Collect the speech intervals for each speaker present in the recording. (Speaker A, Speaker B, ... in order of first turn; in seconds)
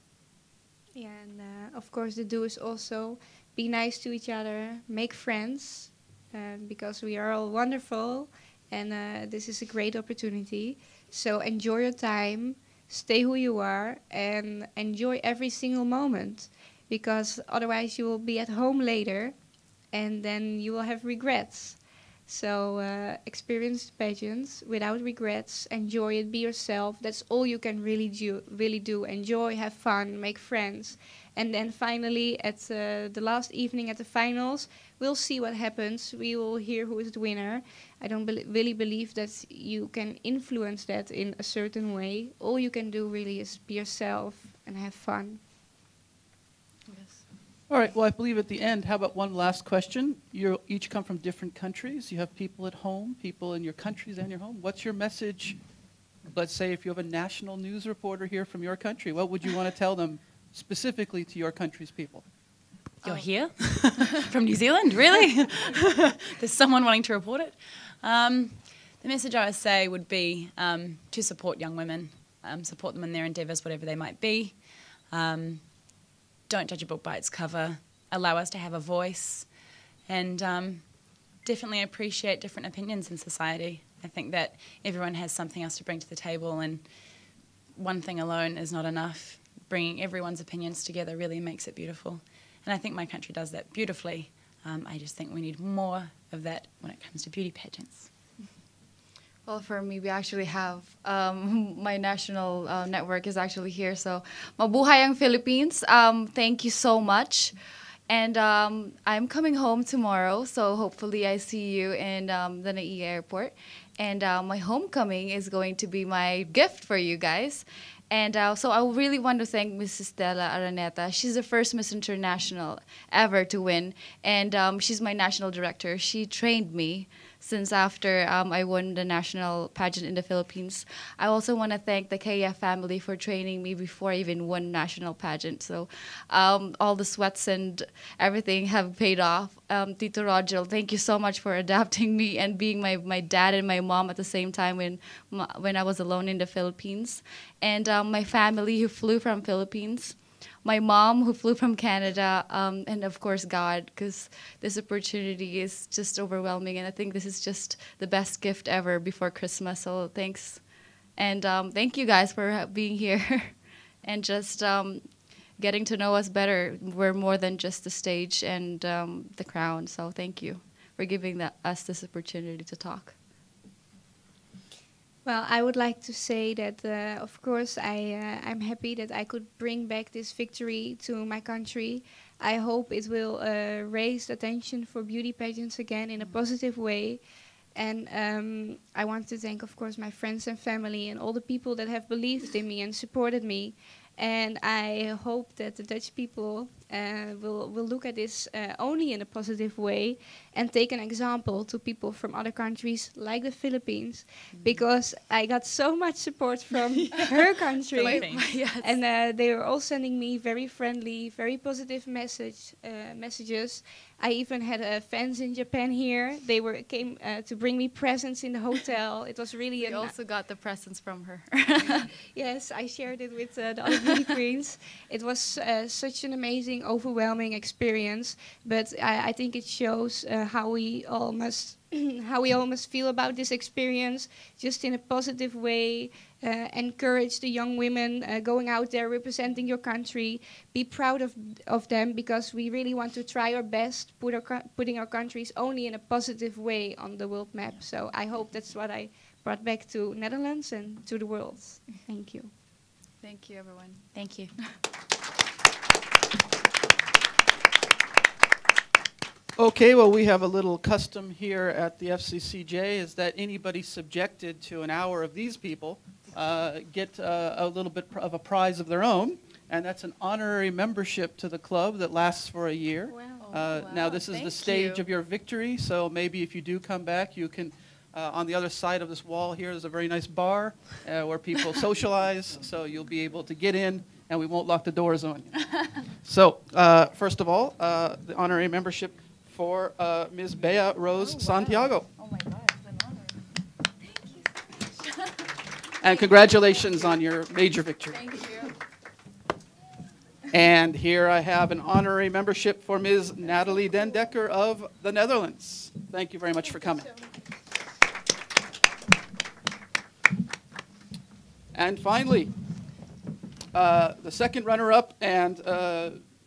Speaker A: 0.9-45.4, 175.2-220.1, 222.3-252.5, 273.1-273.5
Speaker B: 46.9-47.2, 63.0-63.3, 99.5-107.5, 108.1-160.6, 161.2-173.2, 208.0-209.0, 219.8-222.1, 253.2-254.3, 273.4-275.0, 292.2-292.8, 298.3-298.7
Speaker C: 47.7-55.6, 56.2-62.3, 259.6-292.1, 296.0-298.7, 300.5-307.1, 311.7-312.5, 313.7-316.2
Speaker D: 63.0-98.1, 204.5-204.8, 207.9-208.6, 254.1-254.5, 291.2-291.9